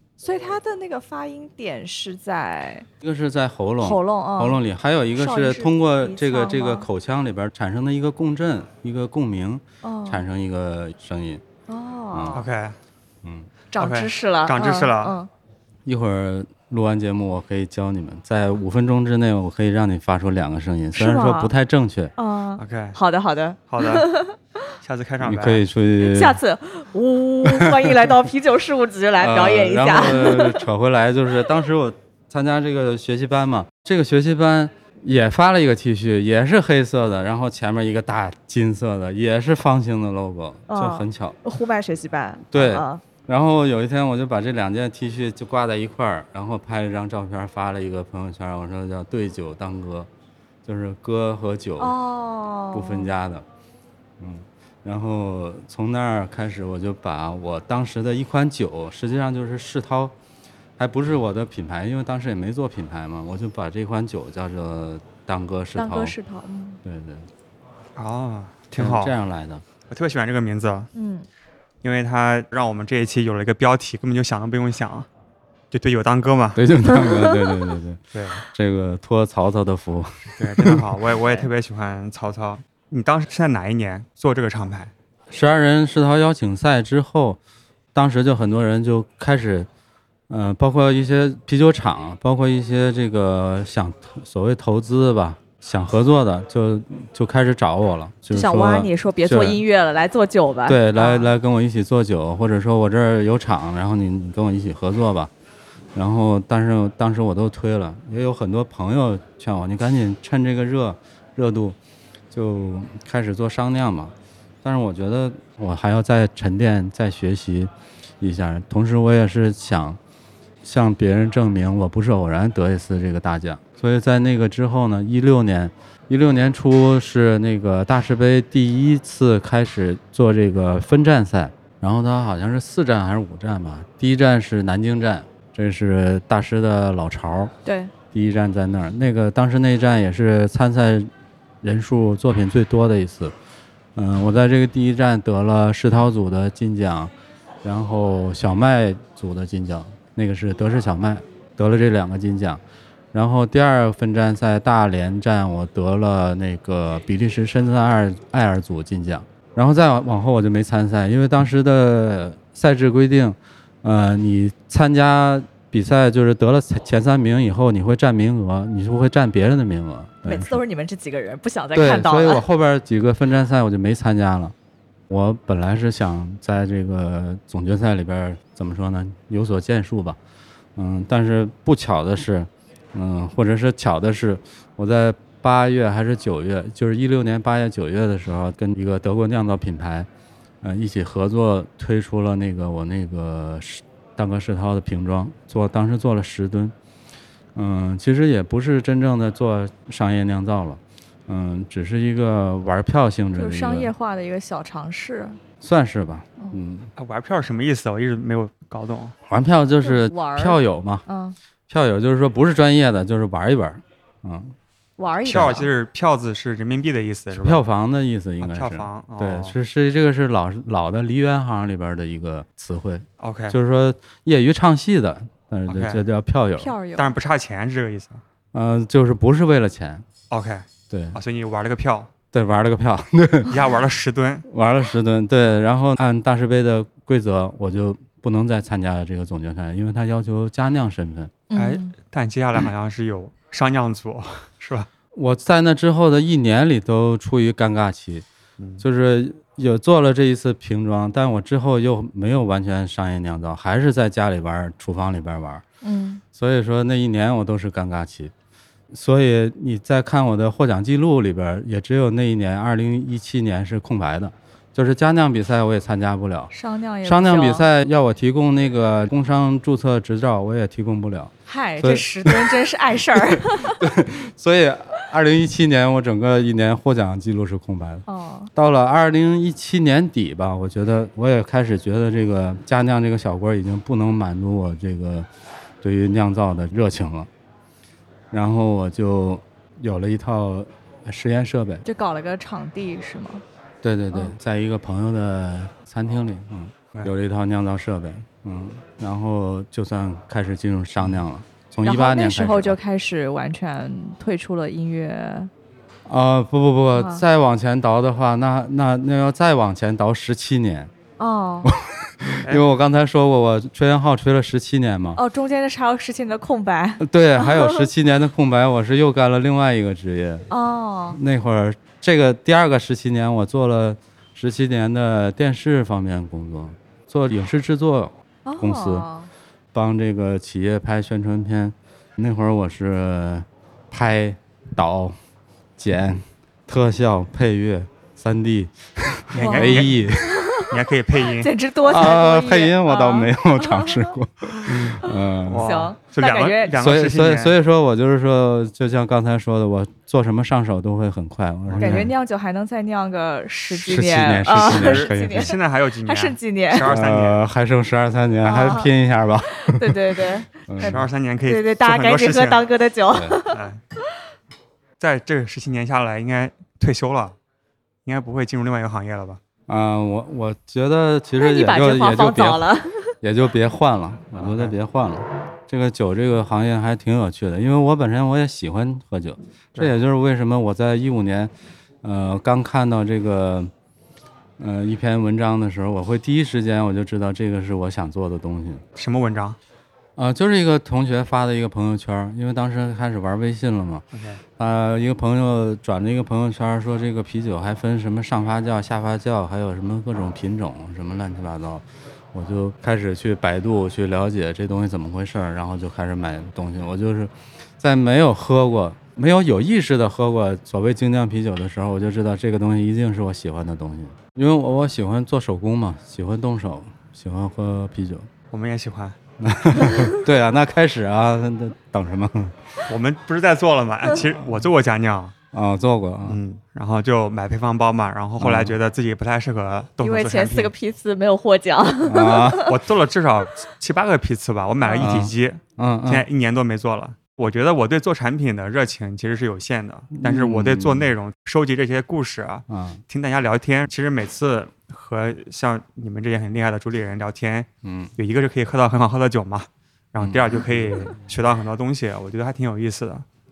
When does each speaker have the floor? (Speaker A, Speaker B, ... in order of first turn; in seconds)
Speaker A: 0.2-2.9, 3.8-4.6, 5.2-6.9, 9.8-10.3, 11.7-12.5, 13.7-15.3, 20.9-21.5, 22.2-24.4, 26.0-30.6, 40.7-43.0, 51.8-53.1, 65.8-66.8, 70.9-71.3, 98.3-101.3, 137.7-137.9, 170.2-172.4, 203.4-205.4, 209.8-211.4, 215.0-215.7, 226.6-227.2, 241.5-241.9, 255.8-256.2, 266.5-267.7, 271.5-273.8, 278.1-278.5, 291.9-293.4, 301.8-305.5, 306.9-307.2, 311.2-311.7, 315.1-317.9, 320.5-321.2, 328.4-329.3, 339.4-340.7, 341.4-344.1, 344.9-346.8, 351.8-356.9, 358.4-358.9, 359.6-363.6, 371.4-373.1, 430.0-432.8, 434.8-435.1
Speaker B: 3.0-11.4, 12.1-12.4, 13.2-13.5, 15.9-22.1, 25.2-26.4, 27.4-28.1, 29.2-41.4, 42.5-50.1, 50.6-52.0, 52.7-53.5, 54.2-60.1, 60.8-66.2, 66.8-67.3, 68.8-69.6, 76.5-80.9, 85.3-87.4, 87.9-89.7, 90.3-99.6, 100.7-105.3, 105.9-111.8, 112.3-120.0, 120.6-137.5, 138.1-141.1, 141.6-143.3, 143.9-147.1, 147.6-152.6, 153.1-170.6, 171.7-174.6, 175.1-180.2, 180.8-190.1, 190.6-196.7, 197.6-203.9, 205.6-206.9, 209.3-211.0, 211.7-214.6, 217.3-226.7, 228.5-230.1, 230.9-231.2, 232.3-233.6, 234.5-241.3, 245.1-248.2, 248.8-255.6, 256.3-258.3, 258.9-266.5, 267.1-285.3, 285.8-287.3, 288.3-291.8, 293.8-302.8, 306.1-310.9, 311.6-315.2, 317.0-320.5, 321.1-329.1, 329.7-335.2, 335.8-340.4, 341.8-345.7, 346.8-352.1, 353.7-355.6, 356.9-361.1, 363.1-363.4, 369.7-372.6, 373.2-381.5, 382.0-383.7, 384.6-388.8, 390.2-394.0, 394.6-418.3, 419.4-422.6, 425.5-426.4, 428.4-428.8, 432.0-432.7, 435.0-436.3, 440.1-441.1, 442.7-443.0, 447.8-448.1, 450.2-451.1
Speaker C: 12.3-12.8, 13.8-15.2, 22.6-23.0, 23.7-24.1, 24.8-25.6, 68.0-69.2, 69.9-70.9, 71.8-75.1, 75.7-76.6, 78.1-78.4, 80.4-84.9, 207.0-209.2, 215.3-217.6, 218.4-219.6, 223.2-223.6, 225.7-226.0, 227.0-228.2, 230.3-232.1, 233.5-234.4, 241.6-244.9, 339.3-340.0, 340.6-341.5, 344.7-347.6, 351.7-352.1, 354.5-357.4, 360.8-362.6, 363.5-363.8, 365.0-367.4, 368.1-369.4, 374.3-374.8, 389.0-389.6, 394.1-394.4, 418.5-419.2, 422.9-425.4, 426.2-430.7, 432.6-453.2